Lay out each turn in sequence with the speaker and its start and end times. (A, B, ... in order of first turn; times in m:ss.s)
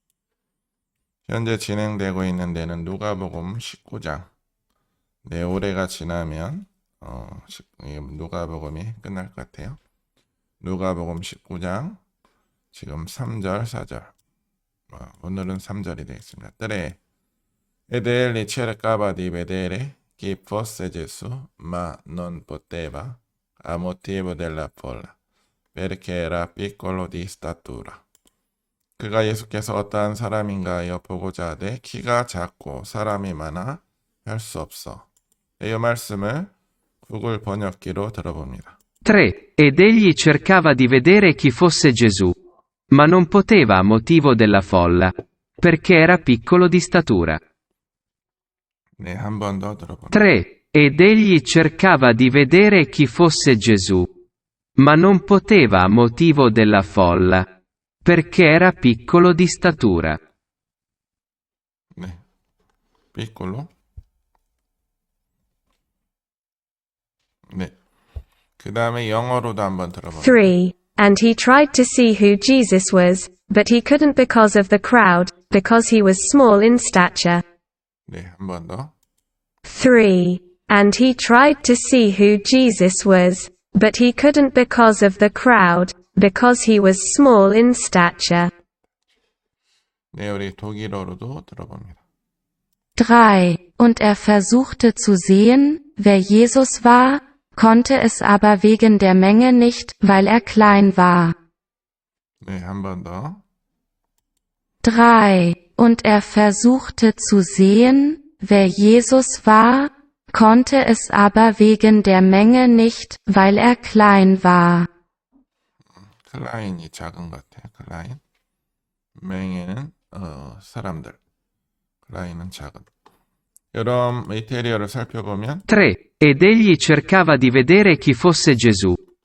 0:01.3-0:04.3 A
0:05.2-0:09.8 A
0:10.6-0:12.0 A
0:12.7-0:14.1 A
0:14.9-0:17.0 A
0:17.9-0:25.2 A
0:25.7-0:28.0 A
0:29.0-0:38.8 A
0:39.0-0:42.3 B
0:42.9-0:47.4 B
0:49.0-0:50.3 A
0:50.2-0:54.1 B
0:54.8-0:57.5 B
0:58.0-1:00.2 B
1:02.0-1:02.2 A
1:03.1-1:03.7 A
1:07.5-1:07.8 A
1:08.6-1:10.5 A
1:10.2-1:17.4 C
1:18.1-1:18.9 A
1:19.7-1:28.5 C
1:30.1-1:32.0 A
1:33.0-1:41.4 D
1:42.4-1:43.4 A
1:44.8-1:54.9 D
1:56.1-1:58.2 A
1:59.2-2:01.2 A
2:02.0-2:02.9 A
2:03.7-2:05.7 A
2:05.7-2:09.0 B